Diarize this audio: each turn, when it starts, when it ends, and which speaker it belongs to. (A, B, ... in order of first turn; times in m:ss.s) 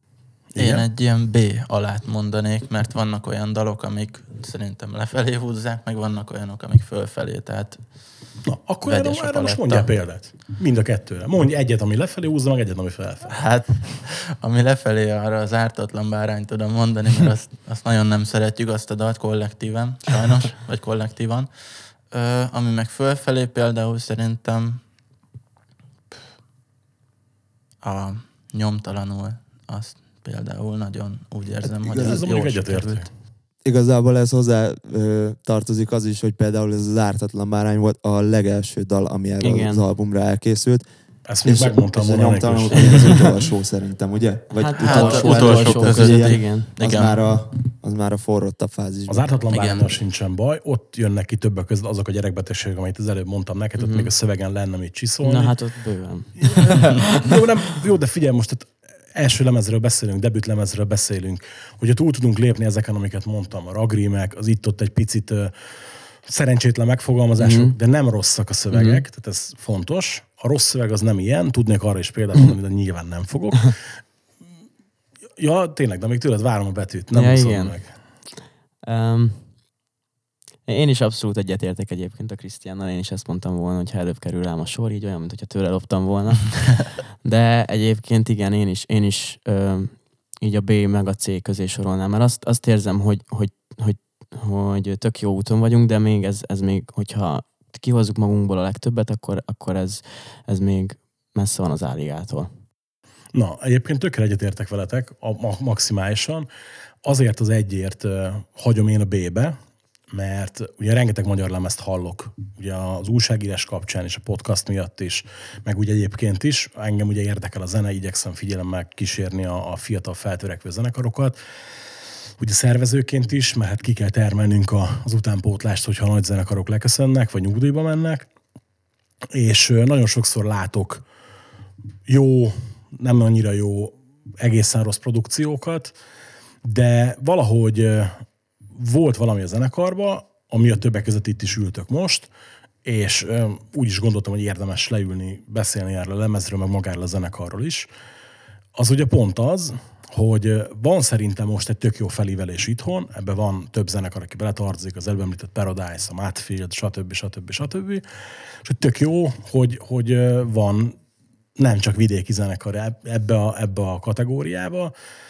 0:00.5-0:09.9 A
0:00.6-0:00.8 B
0:08.4-0:13.4 B
0:13.3-0:24.8 A
0:27.8-0:33.0 A
0:31.6-0:32.2 C
0:32.0-0:33.1 B
0:33.6-0:40.9 C
0:39.4-0:39.8 D
0:41.3-0:43.4 B
0:41.4-0:49.3 C
0:42.8-0:43.1 D
0:44.5-0:46.7 D
0:44.8-0:47.2 A
0:49.1-0:55.6 B
0:49.5-0:50.0 A
0:53.8-0:54.1 D
0:55.2-0:57.0 D
0:56.4-1:05.7 B
1:06.2-1:13.8 B
1:07.4-1:07.8 D
1:08.7-1:09.0 D
1:15.4-1:17.9 B
1:17.1-1:18.1 D
1:18.8-1:19.6 D
1:20.7-1:42.5 D
1:43.3-1:46.5 B
1:47.0-1:49.6 B
1:50.1-2:01.4 B
2:02.4-2:08.3 B
2:09.3-2:11.0 B
2:12.1-2:15.9 B
2:16.6-2:18.2 B
2:18.7-2:22.3 B
2:22.8-2:27.9 B
2:28.7-2:38.0 B
2:38.6-2:41.0 B
2:41.6-2:44.9 B